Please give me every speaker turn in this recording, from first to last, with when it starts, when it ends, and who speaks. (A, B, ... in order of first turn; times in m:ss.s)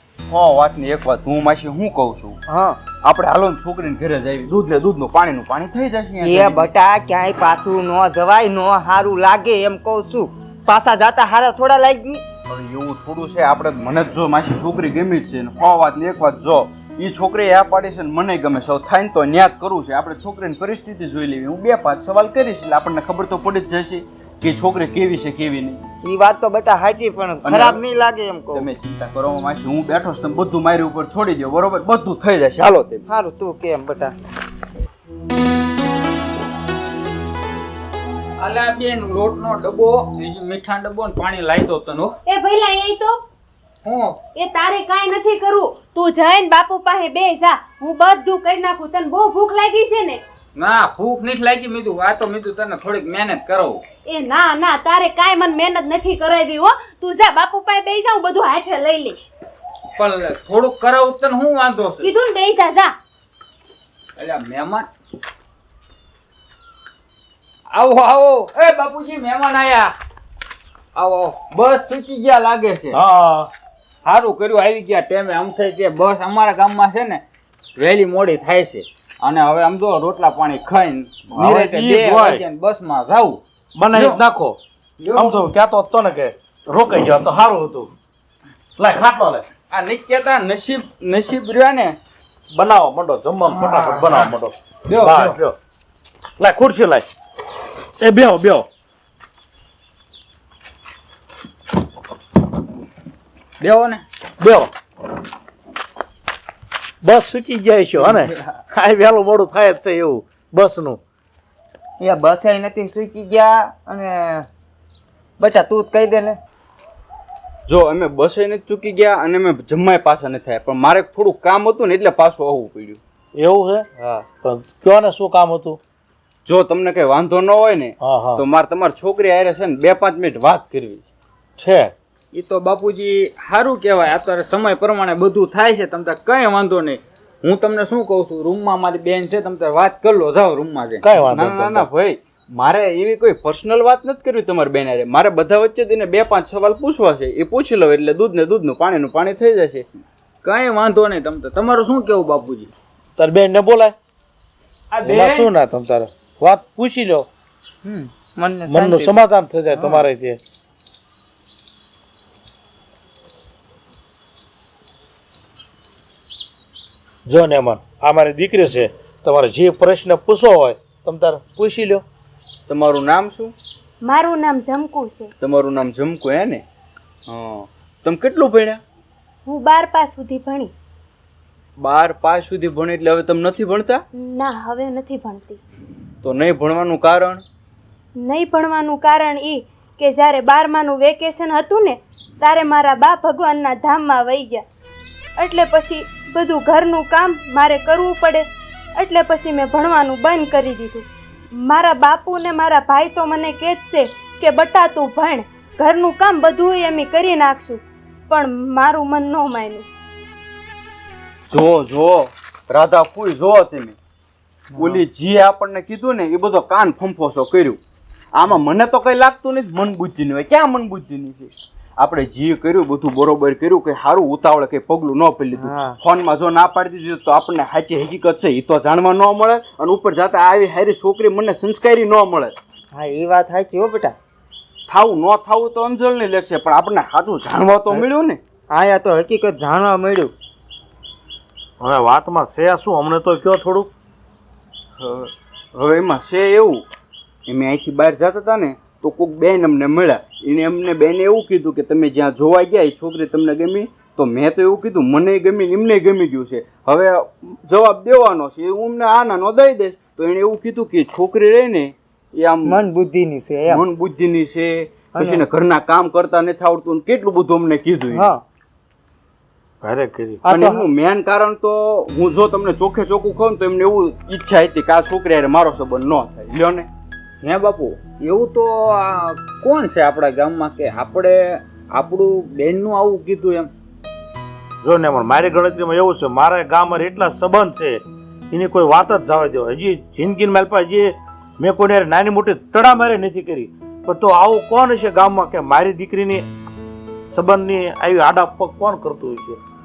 0:00.3-0:02.4 A
0:02.5-0:02.8 B
0:03.0-0:06.7 A
0:06.2-0:12.2 B
0:12.5-0:25.8 A
0:26.0-0:28.7 B
0:27.5-0:27.8 A
0:28.6-0:33.0 A
0:33.1-0:34.1 B
0:38.4-0:42.2 C
0:42.3-0:43.2 D
0:43.8-0:44.2 C
0:44.3-0:50.2 D
0:50.6-0:53.8 C
0:54.0-0:59.3 D
1:00.0-1:02.1 C
1:02.0-1:02.9 D
1:04.2-1:04.9 C
1:07.7-1:09.9 C
1:11.0-1:13.0 C
1:12.9-1:13.5 E
1:14.0-1:17.2 C
1:17.8-1:24.2 C
1:21.3-1:22.4 E
1:23.8-1:24.6 E
1:25.0-1:25.4 C
1:25.1-1:27.9 E
1:28.8-1:29.4 E
1:29.7-1:32.0 C
1:32.5-1:35.6 E
1:33.5-1:34.3 C
1:34.8-1:35.4 C
1:36.4-1:37.0 E
1:38.0-1:38.7 E
1:43.6-1:44.0 C
1:44.4-1:44.7 E
1:47.0-1:51.0 E
1:52.0-1:54.5 B
1:55.4-1:56.4 B
1:57.7-2:03.0 A
2:03.4-2:03.9 E
2:04.0-2:04.2 C
2:04.4-2:05.8 E
2:06.5-2:11.0 A
2:08.0-2:08.4 E
2:11.6-2:11.9 E
2:12.3-2:21.4 C
2:21.0-2:21.9 E
2:21.4-2:29.9 A
2:30.4-2:32.7 C
2:33.2-2:33.9 E
2:34.9-2:35.5 C
2:35.0-2:37.3 E
2:37.8-2:39.2 B
2:38.7-2:40.4 E
2:39.7-2:40.1 B
2:47.3-2:52.0 E
2:52.7-2:53.5 A
2:54.0-2:55.3 D
2:55.4-2:56.6 A
2:57.3-2:58.8 A
2:59.5-3:00.7 D
3:01.8-3:04.0 A
3:04.2-3:05.6 D
3:06.2-3:07.4 A
3:08.2-3:14.6 D
3:15.4-3:18.5 D
3:19.0-3:29.9 D
3:31.5-3:34.0 A
3:34.7-3:35.1 B
3:34.8-3:37.8 A
3:38.4-3:52.6 A
3:45.5-3:46.0 B
3:52.9-3:54.2 B
3:54.9-3:58.4 A
3:58.7-4:00.3 B
4:01.8-4:03.9 E
4:05.0-4:06.8 A
4:07.5-4:22.8 A
4:22.6-4:23.9 B
4:23.7-4:28.3 A
4:25.1-4:25.5 B
4:28.1-4:28.4 B
4:29.8-4:30.5 E
4:30.4-4:30.9 B
4:30.5-4:36.9 A
4:37.4-4:43.7 C
4:44.8-4:56.4 E
4:57.3-4:59.6 E